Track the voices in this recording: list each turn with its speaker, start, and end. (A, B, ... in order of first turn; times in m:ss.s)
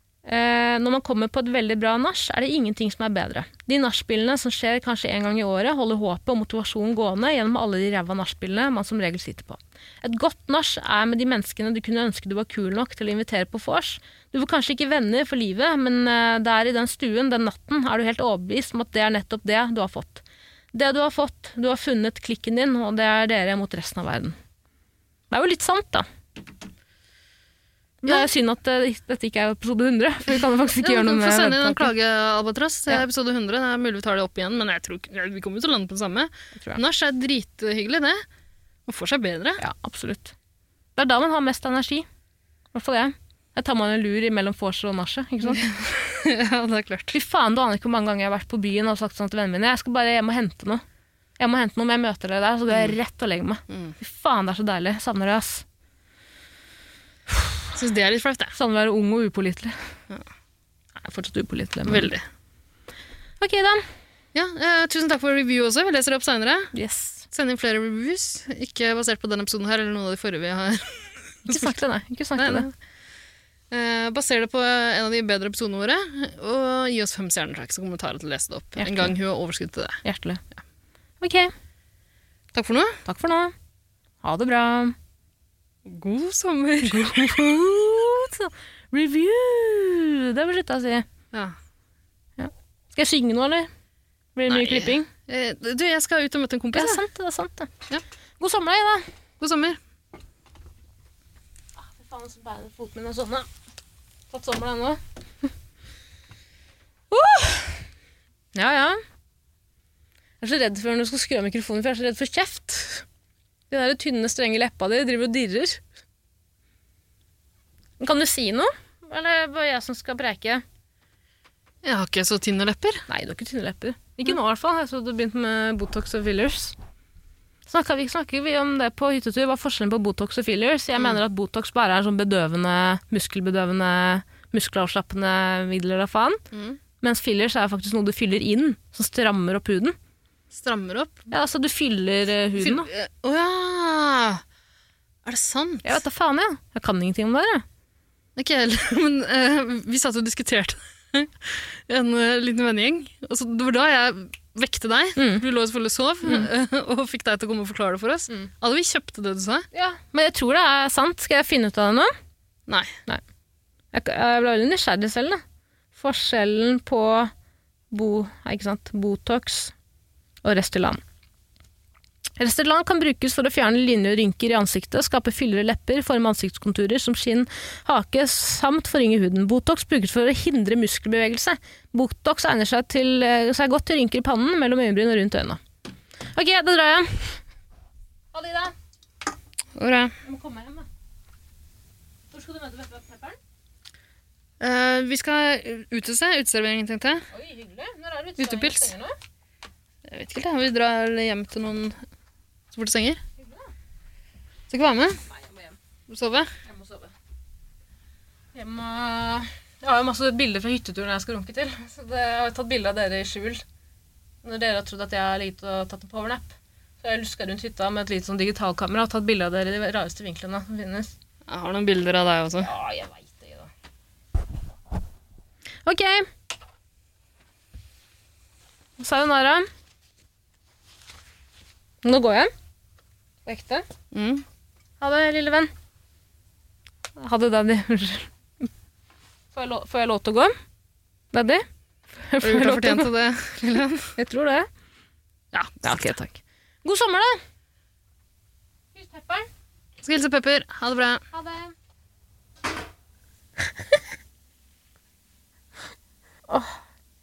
0:00.2-0:24.4 A
0:25.3-0:26.1 A
0:28.0-0:31.9 A
0:30.8-0:38.2 B
0:38.9-0:39.6 B
0:39.6-0:40.3 A
0:41.0-0:42.1 A
0:42.7-0:45.8 A
0:45.4-0:47.1 B
0:47.1-0:50.8 A
0:51.4-0:55.6 A
0:52.7-0:53.0 B
0:53.7-0:54.0 B
0:57.7-0:58.5 B
0:58.5-0:59.8 A
1:01.0-1:02.1 A
1:01.9-1:02.2 B
1:03.4-1:03.8 A
1:04.3-1:06.7 B
1:06.7-1:07.3 A
1:07.3-1:11.8 B
1:11.4-1:12.7 A
1:12.4-1:12.7 B
1:13.7-1:20.0 B
1:18.8-1:19.1 A
1:20.0-1:20.4 A
1:21.2-1:21.5 A
1:22.5-1:23.0 B
1:23.0-1:23.5 A
1:24.2-1:25.0 A
1:25.9-1:27.5 B
1:27.2-1:31.1 A
1:32.4-1:33.7 A
1:34.4-1:35.1 A
1:34.5-1:37.0 B
1:36.7-1:37.7 A
1:38.4-1:39.0 A
1:39.4-1:39.8 B
1:41.8-1:43.5 A
1:44.3-1:45.0 A
1:47.1-1:47.8 A
1:48.6-1:49.0 A
1:50.4-1:53.0 A
1:53.7-1:55.8 A
1:58.0-2:00.6 A
2:01.8-2:03.0 B
2:03.1-2:06.8 A
2:07.7-2:16.4 A
2:16.5-2:16.8 B
2:17.0-2:20.0 A
2:20.5-2:21.3 B
2:21.3-2:22.9 A
2:22.6-2:24.4 B
2:25.2-2:26.0 B
2:25.8-2:27.6 A
2:28.4-2:39.7 B
2:35.2-2:35.4 A
2:39.7-2:42.1 A
2:42.7-2:43.0 B
2:43.9-2:45.4 A
2:46.0-2:47.3 A
2:47.9-2:49.7 A
2:50.4-2:51.0 A
2:52.4-3:05.6 A
3:06.3-3:07.4 A
3:08.3-3:08.7 A
3:09.8-3:10.1 B
3:10.2-3:10.9 A
3:12.3-3:13.4 A
3:14.6-3:17.3 B
3:17.3-3:19.1 A
3:18.4-3:19.0 B
3:20.0-3:22.0 B
3:22.7-3:23.2 B
3:24.7-3:25.2 B
3:25.3-3:25.7 A
3:26.1-3:26.5 B
3:26.7-3:27.1 A
3:28.5-3:33.6 A
3:34.4-3:41.1 A
3:41.5-3:42.7 B
3:42.6-3:43.7 A
3:45.9-3:46.3 A
3:49.0-3:49.7 A
3:52.0-3:52.5 A
3:53.4-3:53.8 A
3:54.1-3:54.4 B
3:55.0-3:55.7 A
3:57.2-3:58.6 A
3:59.5-4:00.6 A
4:01.3-4:01.6 A
4:02.2-4:03.1 A
4:02.4-4:04.1 B
4:04.1-4:04.7 A
4:05.5-4:06.2 B
4:05.8-4:07.4 A
4:09.0-4:09.5 A
4:10.0-4:11.2 B
4:11.3-4:11.7 A
4:16.5-4:16.8 A